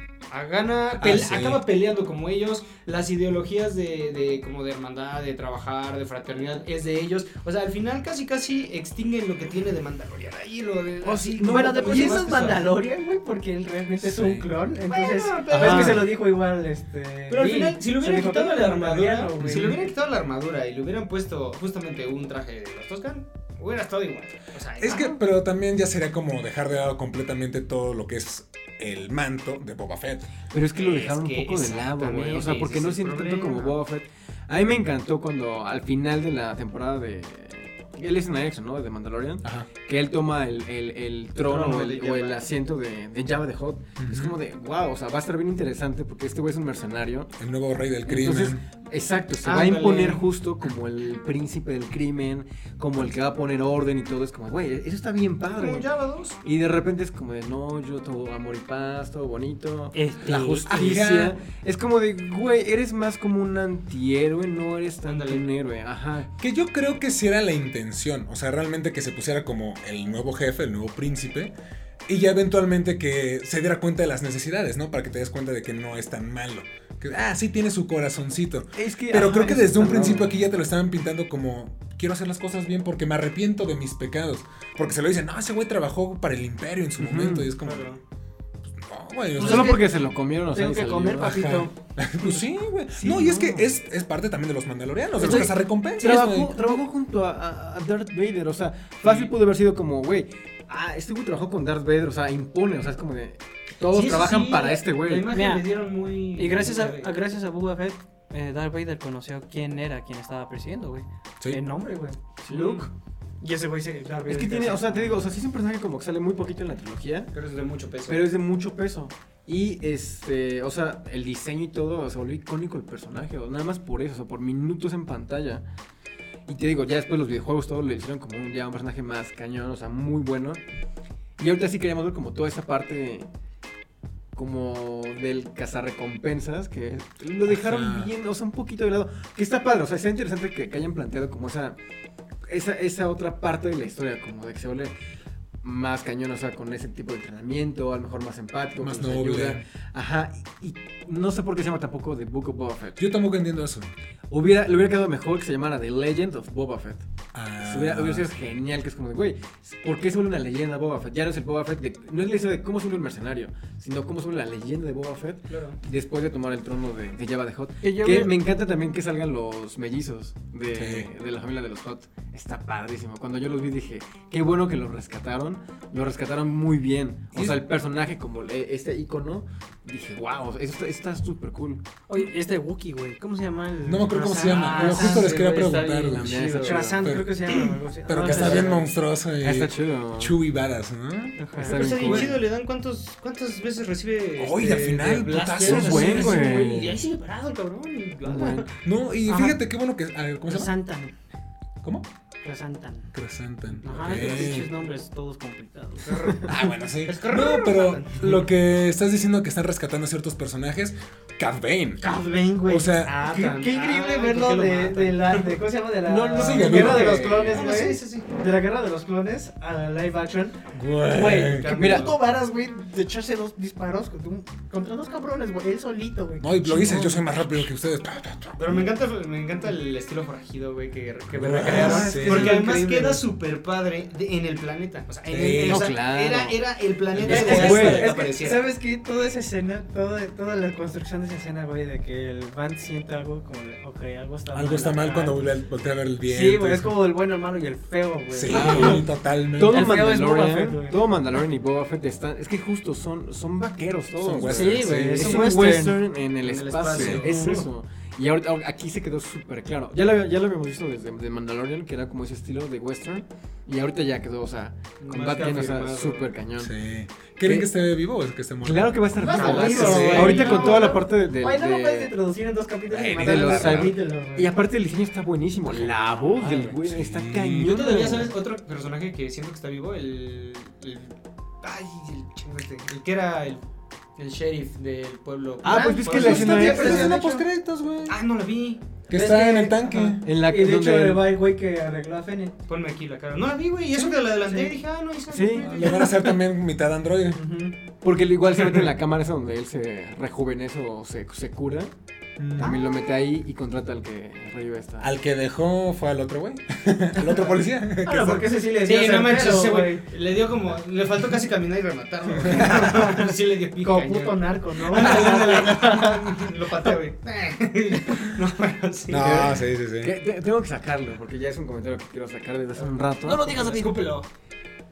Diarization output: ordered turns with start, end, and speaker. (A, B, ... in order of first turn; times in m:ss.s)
0:00.3-0:12.7 A
0:01.0-0:01.6 B
0:11.0-0:12.3 C
0:11.3-0:19.9 D
0:14.0-0:14.5 B
0:14.9-0:16.1 A
0:15.5-0:16.0 C
0:17.3-0:25.2 A
0:19.4-0:19.8 B
0:24.8-0:30.3 B
0:30.5-0:47.3 C
0:30.7-0:33.8 A
0:41.4-0:42.5 A
0:44.0-0:44.4 B
0:47.4-0:48.6 B
0:48.1-0:55.9 C
0:49.4-0:50.3 A
0:55.5-0:56.4 A
0:56.4-1:06.3 C
0:59.9-1:00.9 D
1:00.6-1:01.4 B
1:05.0-1:05.5 A
1:06.4-1:11.5 B
1:12.1-1:28.0 B
1:18.8-1:20.4 C
1:27.0-1:27.5 C
1:27.6-1:28.0 A
1:28.8-1:29.8 B
1:29.4-1:29.9 D
1:29.4-1:31.5 C
1:30.5-1:31.7 D
1:31.2-1:36.6 B
1:32.9-1:33.7 C
1:35.2-1:45.3 C
1:35.2-1:35.5 D
1:39.0-1:39.3 A
1:43.9-1:47.1 A
1:45.3-1:45.7 D
1:46.4-1:52.9 D
1:52.4-1:52.9 C
1:52.5-1:52.9 A
1:53.4-1:55.2 D
1:54.3-1:57.3 C
1:57.3-1:58.3 A
1:58.1-2:05.6 C
2:06.5-2:10.6 C
2:11.4-2:13.3 C
2:14.4-2:21.8 C
2:17.4-2:18.1 B
2:22.5-2:24.9 C
2:25.6-2:33.1 C
2:28.8-2:29.6 B
2:33.0-2:33.9 B
2:34.3-2:37.0 C
2:37.3-2:38.3 B
2:37.6-3:01.9 C
2:45.5-2:45.8 A
2:47.8-2:48.3 D
2:50.7-2:51.1 B
2:57.3-2:57.6 B
3:02.1-3:05.4 D
3:03.9-3:06.4 B
3:04.5-3:06.8 A
3:04.9-3:07.1 C
3:06.6-3:08.8 D
3:07.0-3:07.5 B
3:08.1-3:11.4 B
3:08.2-3:08.8 C
3:09.4-3:10.4 C
3:11.4-3:12.2 D
3:11.6-3:12.4 C
3:11.6-3:18.7 A
3:14.4-3:16.6 B
3:15.6-3:17.0 C
3:18.2-3:18.7 C
3:18.8-3:20.7 B
3:19.2-3:19.6 D
3:20.5-3:21.1 D
3:21.8-3:22.1 B
3:22.4-3:23.1 D
3:23.1-3:24.7 B
3:23.8-3:24.6 A
3:23.8-3:26.4 D
3:26.0-3:28.3 A
3:26.4-3:32.1 B
3:32.0-3:47.6 D
3:32.7-3:33.2 B
3:33.0-3:35.6 A
3:36.1-3:37.6 C
3:36.4-3:37.6 B
3:36.8-3:38.3 A
3:40.7-3:41.7 B
3:41.4-3:42.2 A
3:41.7-3:42.1 C
3:46.4-3:48.9 B
3:48.6-3:58.6 A
3:51.3-3:52.6 B
3:51.6-3:53.2 D
3:51.9-3:52.5 C
3:55.3-3:55.9 B
3:55.6-3:56.6 C
3:57.1-3:58.1 B
3:57.2-3:58.1 C
3:57.2-4:05.5 D
4:04.5-4:07.0 B
4:06.2-4:09.0 D
4:08.3-4:10.0 B
4:08.5-4:26.7 C
4:09.6-4:11.0 D
4:14.2-4:15.6 B
4:14.5-4:16.0 D
4:16.4-4:17.7 A
4:16.9-4:17.2 B
4:17.2-4:17.7 D
4:25.0-4:26.3 A
4:26.6-4:30.6 B
4:27.4-4:27.7 C
4:28.6-4:32.1 C
4:29.2-4:34.5 D
4:29.3-4:31.0 A
4:32.9-4:34.0 B
4:33.2-4:38.3 C
4:35.7-4:36.8 A
4:36.8-4:38.0 B
4:37.6-4:43.6 A
4:44.2-4:47.4 A
4:45.6-4:47.2 C
4:45.7-4:47.4 D
4:46.1-4:48.2 B
4:48.1-4:48.8 A
4:49.1-4:50.3 B
4:49.1-4:52.6 D
4:50.2-4:51.3 C
4:52.7-4:56.2 A
4:54.4-4:54.8 D
4:55.3-4:55.7 C
4:55.6-4:57.4 B
4:57.3-4:57.8 D
4:58.0-5:01.9 C
5:02.4-5:02.8 B
5:02.6-5:05.1 C
5:05.0-5:08.6 B
5:08.0-5:10.0 D
5:08.8-5:19.5 A
5:12.4-5:13.0 B
5:13.8-5:16.6 D
5:15.0-5:15.5 B
5:19.1-5:20.2 B
5:19.2-5:23.9 C
5:22.8-5:24.3 A